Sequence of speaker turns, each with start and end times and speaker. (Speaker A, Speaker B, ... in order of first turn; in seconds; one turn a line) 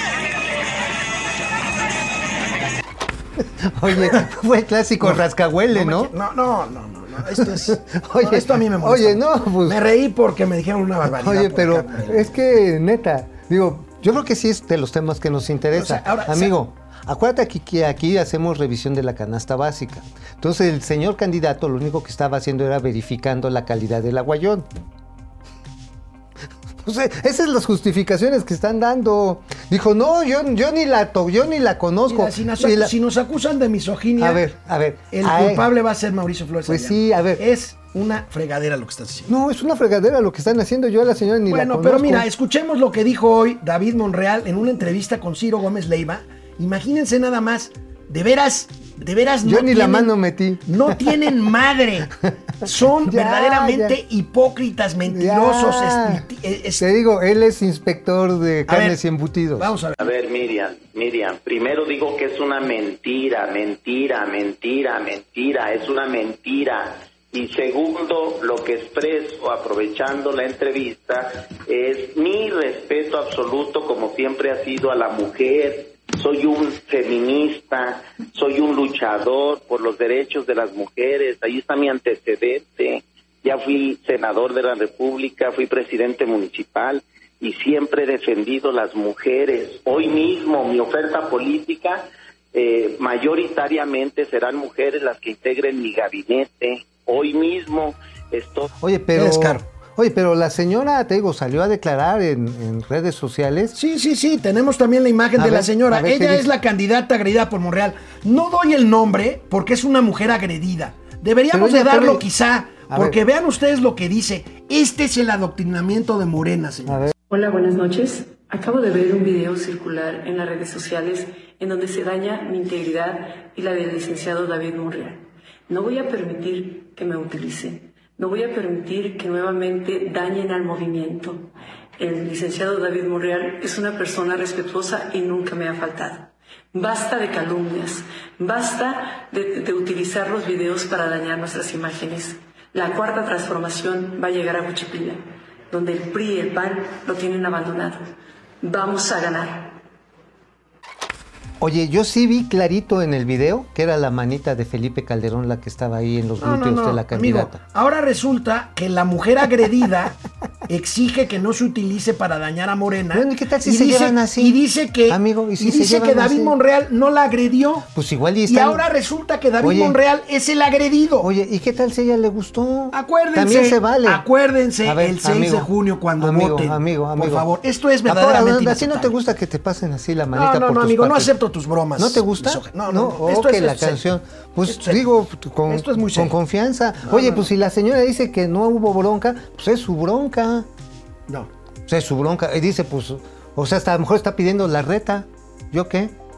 Speaker A: 3.6-6.1
Speaker B: 5.0-12.3
Speaker A: 7.3-9.8
Speaker A: 11.2-24.7
Speaker B: 15.7-16.6
Speaker A: 26.8-32.9
Speaker B: 32.0-34.4
Speaker A: 34.2-35.7
Speaker B: 35.1-39.3
Speaker A: 36.7-37.4
Speaker A: 39.3-42.2
Speaker B: 41.5-50.1
Speaker A: 49.4-51.1
Speaker B: 50.6-56.9
Speaker A: 53.0-54.0
Speaker A: 55.1-56.2
Speaker A: 56.8-59.7
Speaker B: 58.7-59.0
Speaker B: 59.5-60.0
Speaker C: 60.0-98.7
Speaker A: 98.8-103.8
Speaker B: 99.1-99.6
Speaker B: 103.7-117.1
Speaker A: 105.4-106.5
Speaker A: 111.5-112.2
Speaker A: 112.9-113.2
Speaker A: 116.9-117.1
Speaker D: 117.3-148.0
Speaker D: 148.6-149.8
Speaker A: 151.6-157.6
Speaker B: 156.4-167.9
Speaker A: 163.1-166.6
Speaker A: 167.9-168.8
Speaker B: 168.5-171.3
Speaker A: 169.6-170.0
Speaker A: 171.2-174.2
Speaker B: 172.9-179.2
Speaker A: 174.8-177.5
Speaker A: 178.0-181.3
Speaker B: 180.3-184.0
Speaker A: 182.0-190.7
Speaker B: 184.7-185.0
Speaker B: 185.7-186.3
Speaker B: 187.1-187.5
Speaker A: 191.9-196.1